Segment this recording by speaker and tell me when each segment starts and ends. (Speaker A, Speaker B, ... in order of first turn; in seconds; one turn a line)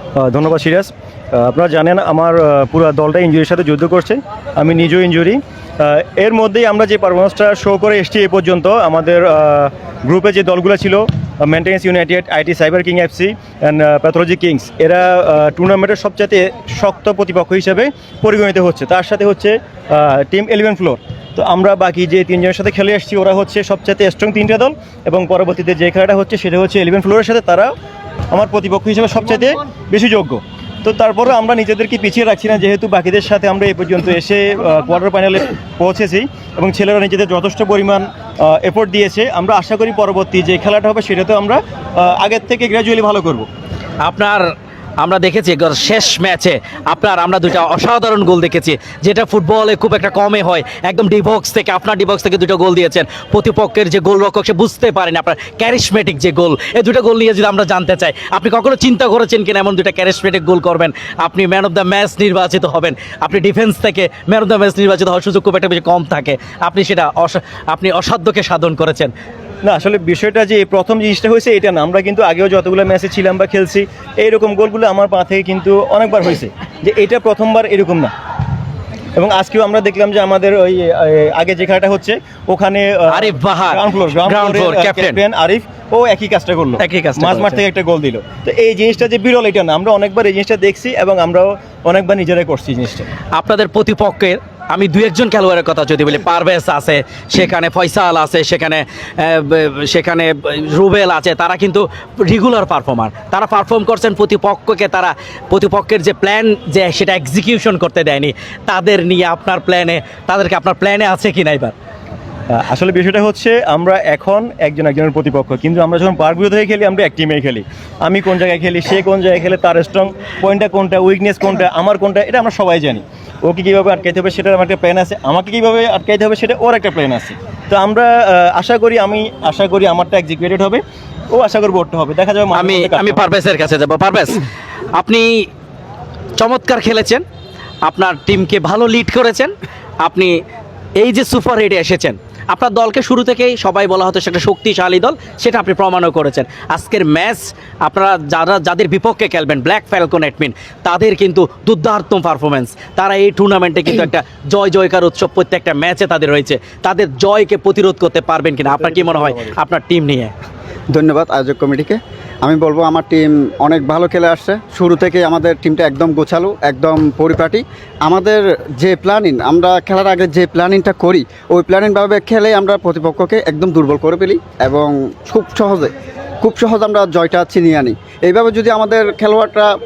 Speaker A: 0.2-27.7
Speaker A: 28.3-43.5
Speaker B: 44.0-44.5
Speaker B: 45.0-69.1
Speaker A: 69.6-78.1
Speaker A: 79.2-93.1
Speaker B: 83.1-85.2
Speaker B: 86.8-87.6
Speaker B: 93.3-111.7
Speaker A: 112.5-133.2
Speaker B: 132.5-135.5
Speaker B: 136.4-137.2
Speaker B: 137.8-140.3
Speaker B: 141.0-160.3
Speaker A: 158.9-159.4
Speaker C: 160.9-179.7